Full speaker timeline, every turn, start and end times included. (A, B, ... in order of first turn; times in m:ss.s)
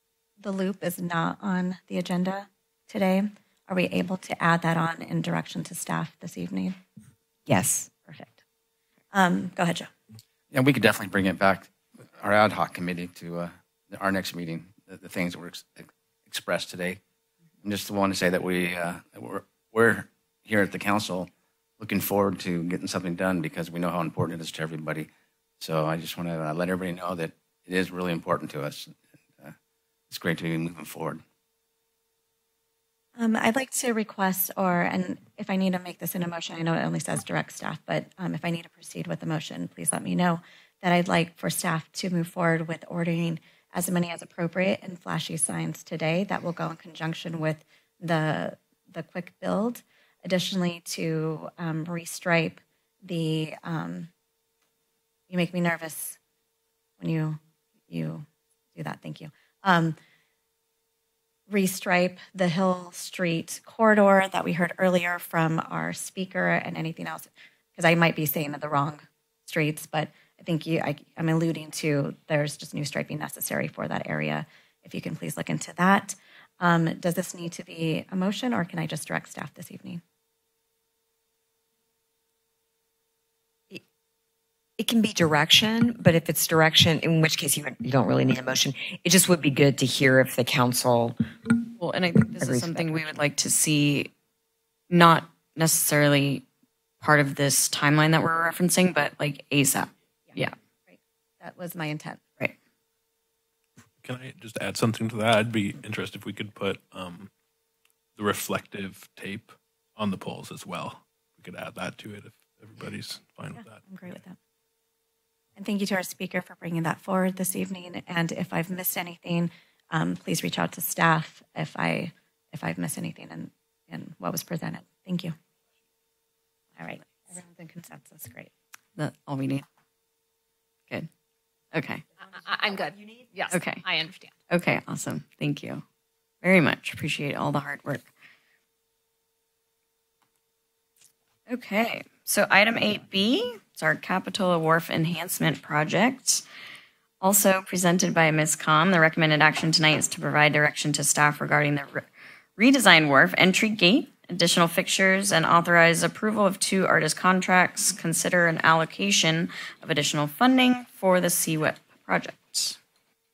0:00.4-0:06.8 A
0:07.5-0:07.9 B
0:09.1-0:09.9 A
0:10.5-0:17.0 C
0:17.6-0:29.5 C
0:30.1-0:31.2 C
0:33.2-0:54.1 A
0:55.3-0:56.2 A
0:57.0-1:00.0 A
1:01.5-1:20.0 A
1:24.8-1:31.2 B
1:31.8-1:34.1 D
1:32.4-1:33.0 B
1:34.9-1:36.4 D
1:37.0-1:40.5 D
1:40.3-1:42.2 A
1:44.0-1:47.3 E
1:48.2-1:54.2 E
1:53.6-1:54.4 A
1:55.6-2:05.3 A
2:06.8-2:08.5 A
2:09.0-2:09.6 D
2:11.7-2:12.0 D
2:12.4-2:14.3 F
2:13.5-2:13.8 D
2:14.5-2:15.8 D
2:16.4-2:18.1 D
2:21.5-2:26.4 D
2:27.2-2:32.0 D
2:32.6-2:42.8 D